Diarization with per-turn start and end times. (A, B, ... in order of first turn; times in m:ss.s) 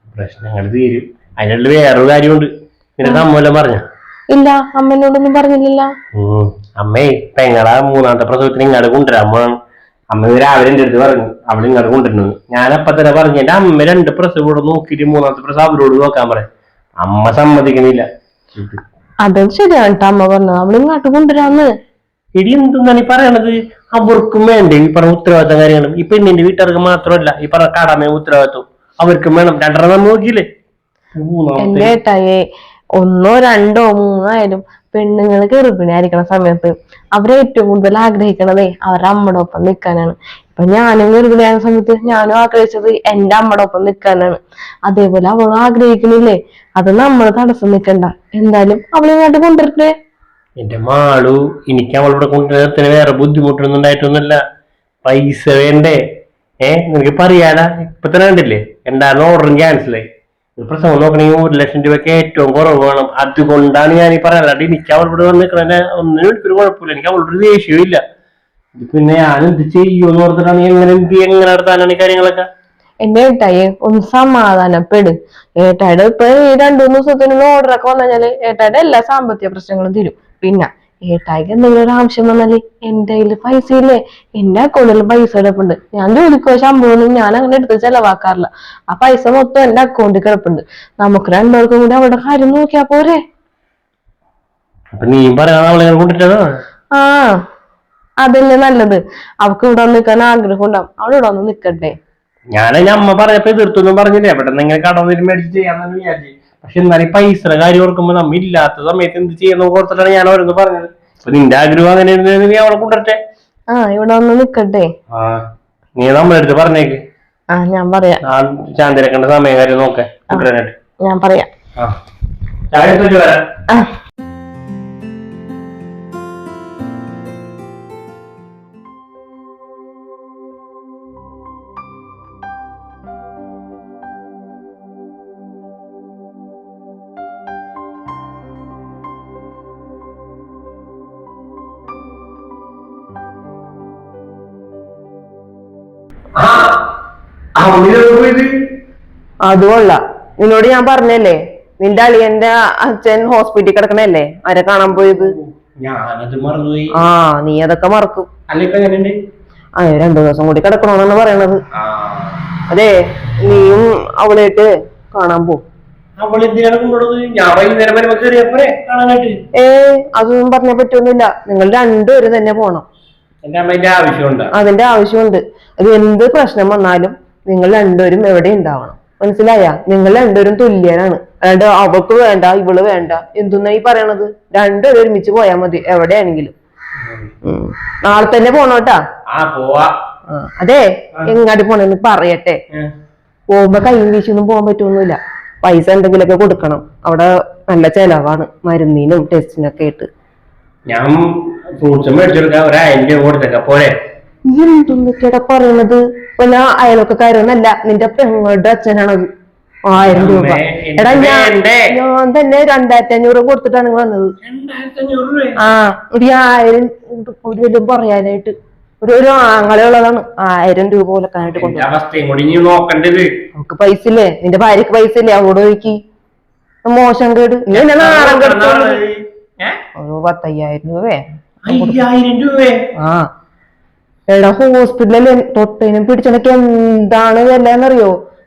0:00.2-0:03.8 A
0:04.3-0:05.9 B
0:06.2-0:09.5 A
0:10.1-0:16.5 A
0:17.0-0:18.8 A
0:19.2-0:21.7 B
0:22.4-0:30.5 A
0:31.2-0:32.0 A
0:31.6-0:32.4 B
0:33.0-0:49.9 B
0:50.6-0:54.4 A
0:55.0-0:56.0 A
0:56.6-1:00.0 A
1:00.6-1:08.0 A
1:08.8-1:12.5 A
1:13.0-1:33.2 B
1:35.0-1:36.4 A
1:36.9-1:37.3 B
1:38.2-1:42.0 B
1:42.5-1:53.2 A
1:53.7-1:54.9 B
1:55.1-1:55.4 A
1:56.0-1:57.0 A
1:57.5-1:58.2 B
1:58.2-2:00.8 A
2:01.0-2:01.5 B
2:02.7-2:03.4 A
2:26.4-2:26.8 A
2:27.6-2:28.5 A
2:29.4-2:35.3 C
2:35.0-2:37.0 A
2:37.0-2:38.3 C
2:38.5-2:39.2 A
2:39.8-2:41.6 C
2:41.8-2:42.4 A
2:42.7-2:45.6 C
2:46.2-2:49.4 A
2:49.6-2:52.8 C
2:53.4-2:54.5 A
2:54.5-3:06.5 C
3:07.4-3:09.0 C
3:09.3-3:09.9 A
3:10.3-3:12.6 C
3:13.5-3:20.1 C
3:20.9-3:23.9 A
3:24.5-3:29.2 C
3:29.9-3:34.3 C
3:30.0-3:31.9 A
3:34.4-3:35.6 A
3:35.6-3:41.9 C
3:41.5-3:43.3 A
3:43.6-3:46.0 C
3:46.8-3:49.0 C
3:47.7-3:49.8 A
3:50.0-3:52.0 C
3:51.7-3:52.8 A
3:53.0-3:53.3 C
3:54.3-3:58.1 C